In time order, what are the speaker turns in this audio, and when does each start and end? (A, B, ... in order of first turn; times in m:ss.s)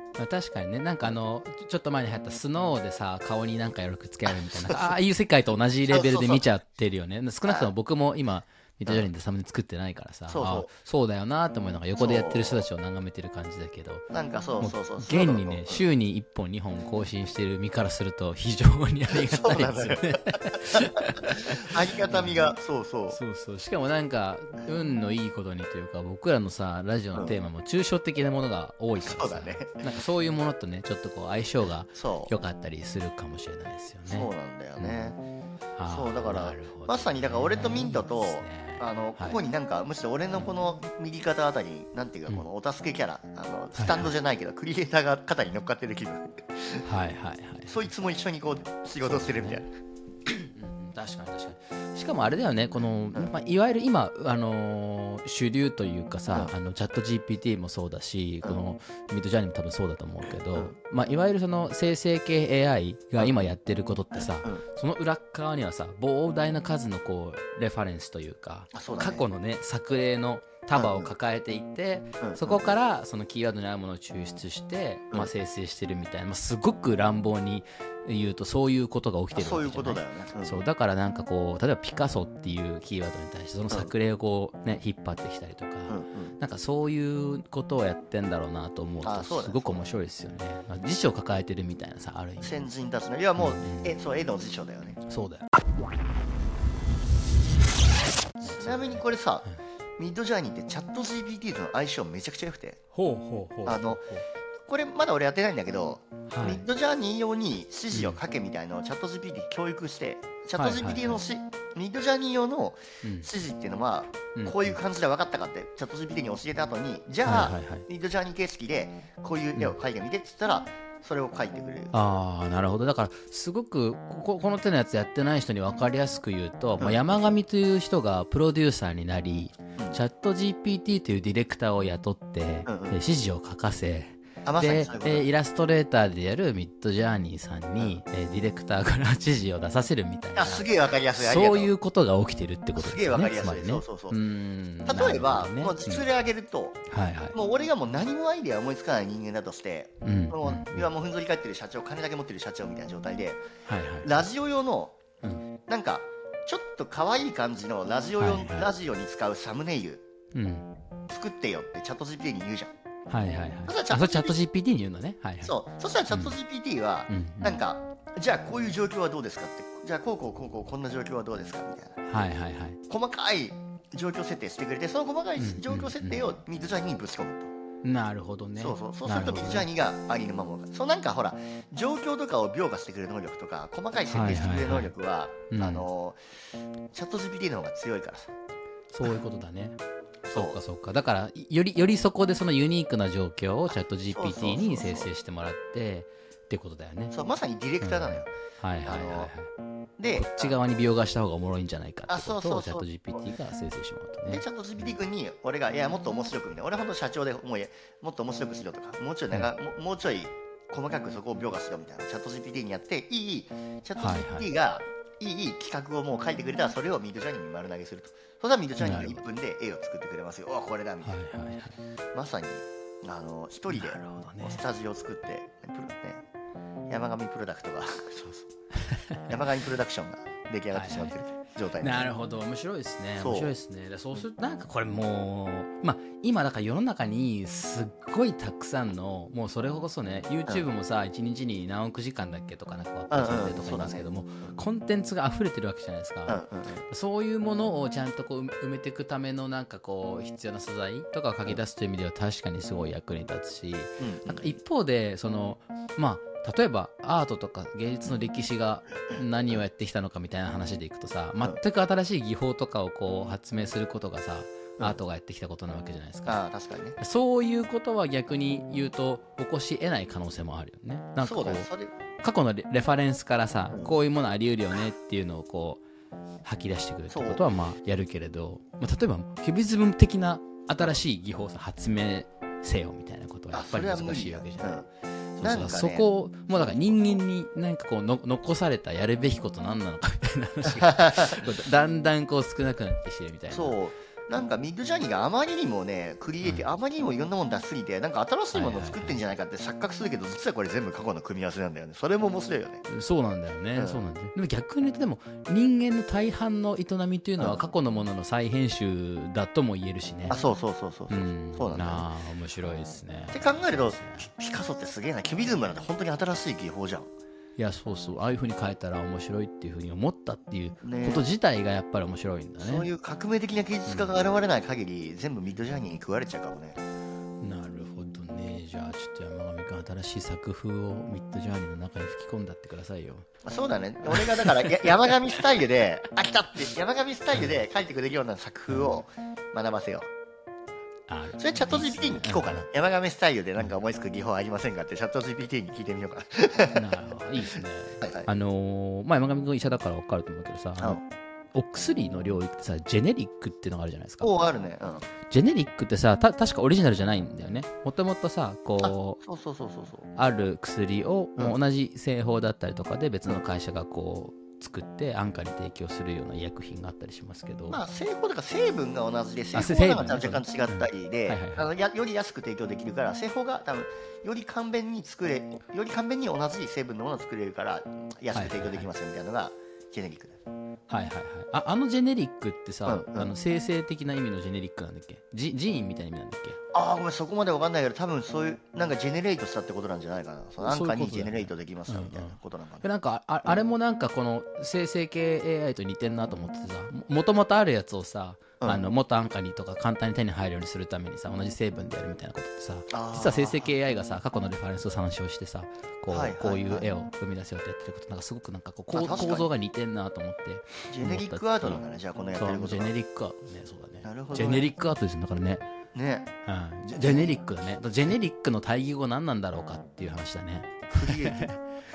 0:00.2-0:14.1 A
0:04.4-0:04.9 B
0:05.9-0:06.4 B
0:10.3-0:10.7 B
0:12.0-0:12.6 B
0:14.1-0:15.8 B
0:14.6-0:22.4 A
0:19.1-0:23.2 B
0:23.1-0:35.1 A
0:29.0-0:29.8 B
0:32.0-0:32.3 B
0:34.1-0:35.2 B
0:35.8-0:39.4 A
0:35.9-0:46.9 B
0:43.8-0:44.1 A
0:46.8-0:47.9 A
0:47.6-0:49.7 B
0:49.0-0:49.6 A
0:50.2-1:32.5 A
1:04.1-1:04.6 B
1:08.7-1:09.2 B
1:10.7-1:11.1 B
1:12.2-1:12.8 B
1:19.3-1:20.6 B
1:25.9-1:26.4 B
1:29.0-1:29.8 B
1:32.4-1:35.0 B
1:33.4-1:33.9 A
1:35.0-1:35.5 A
1:38.4-1:39.5 B
1:38.4-1:39.5 A
1:40.0-1:42.8 B
1:42.9-1:44.2 A
1:43.6-1:44.0 B
1:44.7-2:01.9 B
1:46.3-1:46.7 A
1:47.9-1:48.2 A
1:50.6-1:51.2 A
1:53.0-1:53.3 A
1:54.3-1:54.8 A
1:57.2-1:57.8 A
2:01.9-2:26.0 A
2:06.8-2:07.3 B
2:12.6-2:13.0 B
2:14.4-2:15.3 B
2:20.4-2:21.7 B
2:22.8-2:24.2 B
2:24.8-2:26.8 B
2:26.9-2:27.4 A
2:27.3-2:33.4 B
2:30.0-2:30.9 A
2:33.6-2:34.1 A
2:34.0-2:35.0 B
2:35.7-2:40.0 B
2:38.2-2:38.7 A
2:40.3-2:40.7 A
2:41.1-2:42.7 B
2:43.1-2:45.5 A
2:43.6-2:44.4 B
2:45.4-2:52.0 B
2:46.1-2:46.4 A
2:47.1-2:47.6 A
2:52.0-2:52.8 A
2:52.9-2:57.5 B
2:55.4-2:56.2 A
2:57.8-2:59.7 A
2:58.6-3:06.3 B
3:04.1-3:04.9 A
3:05.5-3:05.8 A
3:06.9-3:08.3 B
3:08.9-3:09.8 A
3:10.2-3:10.6 B
3:10.3-3:17.1 A
3:14.1-3:15.1 B
3:17.1-3:18.3 B
3:17.8-3:19.5 A
3:18.8-3:19.3 B
3:20.0-3:20.8 B
3:20.1-3:24.4 A
3:22.1-3:23.3 B
3:24.3-3:41.2 B
3:34.0-3:34.5 A
3:38.8-3:39.2 A
3:41.0-3:41.8 A
3:42.1-3:46.2 B
3:43.7-3:44.6 A
3:46.9-3:48.5 B
3:48.8-3:49.4 A
3:49.2-3:52.1 B
3:50.7-3:51.2 A
3:51.8-4:26.4 A
3:53.2-3:53.5 B
4:03.1-4:04.5 B
4:06.3-4:06.8 B
4:14.0-4:14.5 B
4:26.3-4:27.0 B
4:27.0-4:31.7 A
4:31.2-4:32.0 B
4:32.2-4:35.8 A
4:33.7-4:34.0 B
4:36.4-4:44.8 A
4:37.1-4:37.4 B
4:43.5-4:44.8 B
4:45.4-4:47.2 B
4:45.4-4:53.8 A
4:50.7-4:51.4 B
4:53.5-5:02.8 B
4:58.5-4:59.2 A
5:02.9-5:10.4 A
5:03.7-5:04.0 B
5:10.3-5:12.1 B
5:11.1-5:14.3 A
5:13.3-5:17.1 B
5:17.6-5:22.9 A
5:20.8-5:21.2 B
5:22.6-5:26.8 B
5:23.9-5:24.1 A
5:27.4-5:33.2 A
5:33.4-5:40.1 B
5:34.1-5:34.9 A
5:38.7-5:39.0 A
5:41.1-5:42.6 A
5:41.4-5:46.9 B
5:46.7-5:51.0 A
5:48.0-5:48.3 B
5:51.5-5:54.3 A
5:54.2-5:55.0 B
5:55.3-5:59.2 A
5:58.8-6:00.1 B
6:00.2-6:07.8 A
6:07.7-6:20.4 B
6:09.5-6:11.7 A
6:18.3-6:18.9 A
6:20.9-6:26.6 A
6:22.9-6:23.3 B
6:26.7-6:32.8 B
6:30.6-6:51.8 A
6:38.6-6:38.9 B
6:42.9-6:43.7 B
6:46.1-6:46.9 B
6:48.9-6:49.5 B
6:50.9-6:52.9 B
6:52.3-6:55.6 A
6:54.0-6:54.7 B
6:55.9-6:56.3 B
6:56.4-7:01.6 A
6:56.9-6:57.3 B
7:00.9-7:01.6 B